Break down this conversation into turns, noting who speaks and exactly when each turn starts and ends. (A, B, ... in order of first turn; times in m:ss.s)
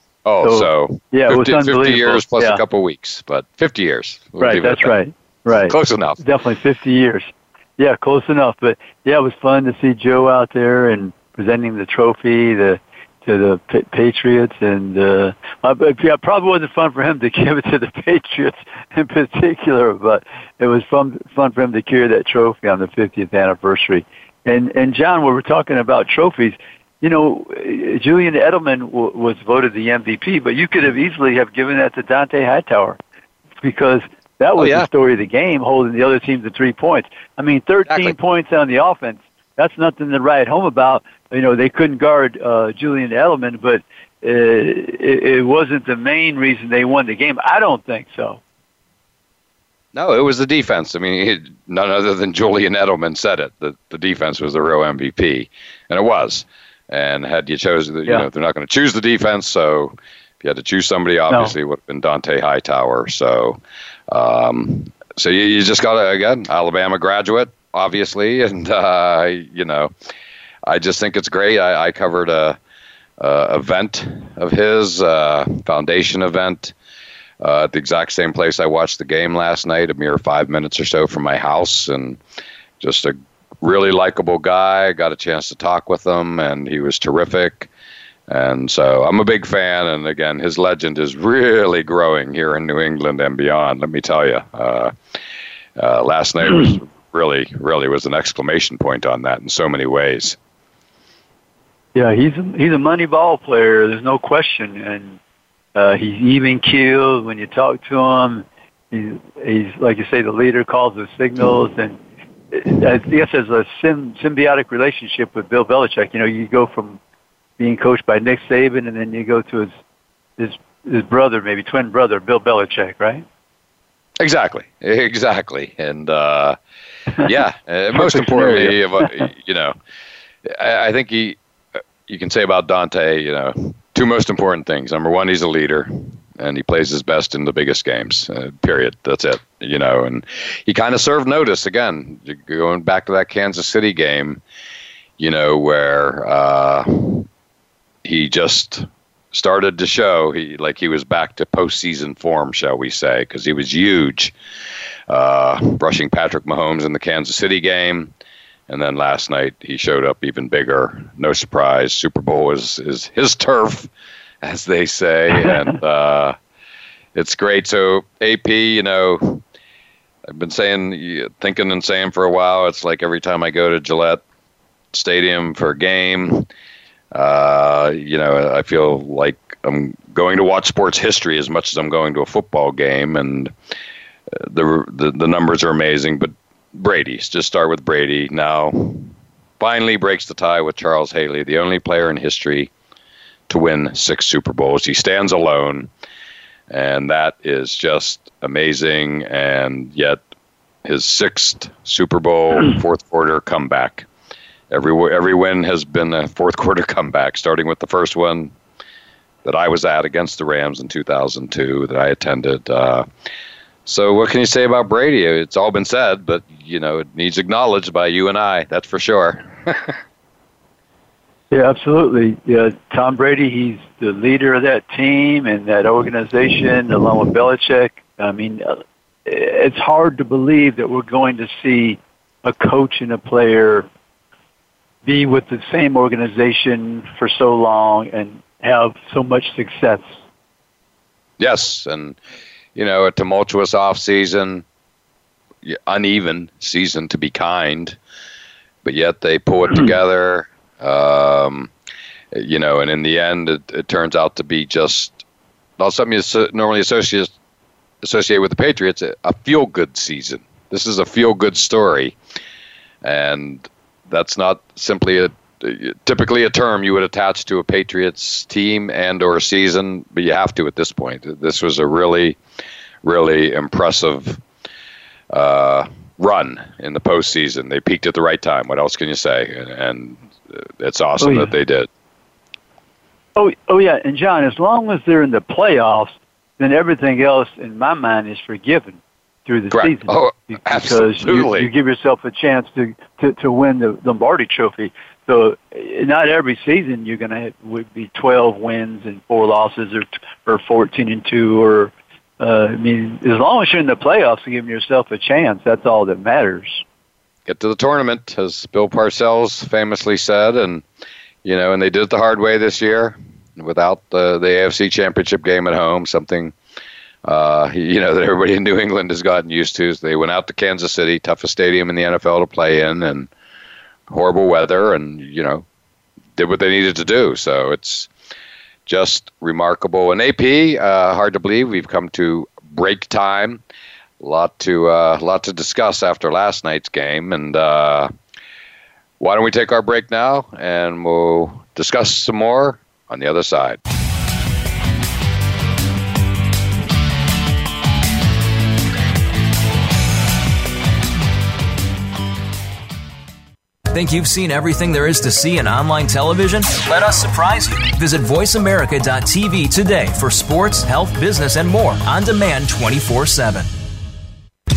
0:00.2-0:05.0 A
0:00.4-0:02.6 B
0:04.4-0:33.0 B
0:05.6-0:06.2 A
0:33.6-0:48.4 B
0:34.6-0:34.9 A
0:37.9-0:38.1 A
0:49.9-1:03.6 A
1:04.1-1:09.9 A
1:10.6-1:12.6 A
1:13.2-1:16.7 A
1:17.4-1:22.2 A
1:22.8-1:27.7 A
1:28.3-1:34.9 A
1:35.8-1:40.4 A
1:41.9-1:45.2 B
1:45.7-1:52.0 B
1:52.5-1:57.0 B
1:57.6-1:59.7 B
2:00.4-2:03.2 B
2:04.2-2:06.6 A
2:07.2-2:09.8 A
2:07.9-2:09.2 B
2:10.4-2:11.4 A
2:12.1-2:24.4 A
2:25.2-2:27.3 A
2:28.0-2:34.3 A
2:35.1-2:38.1 A
2:38.7-2:43.9 A
2:44.4-2:46.4 A
2:47.1-2:49.4 A
2:50.3-2:54.2 A
2:54.9-2:56.5 A
2:57.1-3:03.5 A
3:04.4-3:12.7 A
3:13.5-3:15.9 A
3:16.7-3:20.2 A
3:20.8-3:24.1 A
3:24.7-3:28.5 A
3:29.4-3:33.0 A
3:33.8-3:40.0 A
3:41.5-3:53.9 B
3:55.0-4:00.1 B
4:01.4-4:02.2 A
4:02.8-4:04.6 A
4:05.6-4:08.0 A
4:08.8-4:11.7 A
4:12.3-4:15.2 A
4:15.8-4:17.3 A
4:18.0-4:22.1 A
4:23.0-4:32.4 A
4:33.0-4:34.4 A
4:35.3-4:41.9 A
4:41.2-4:41.5 B
4:43.4-5:06.8 B
4:49.7-4:51.7 A
5:07.5-5:10.8 A
5:11.4-5:16.5 A
5:17.2-5:23.3 A
5:24.1-5:25.6 A
5:26.4-5:28.1 A
5:28.8-5:33.6 A
5:34.2-5:38.1 A
5:39.2-5:43.8 A
5:53.9-6:03.7 C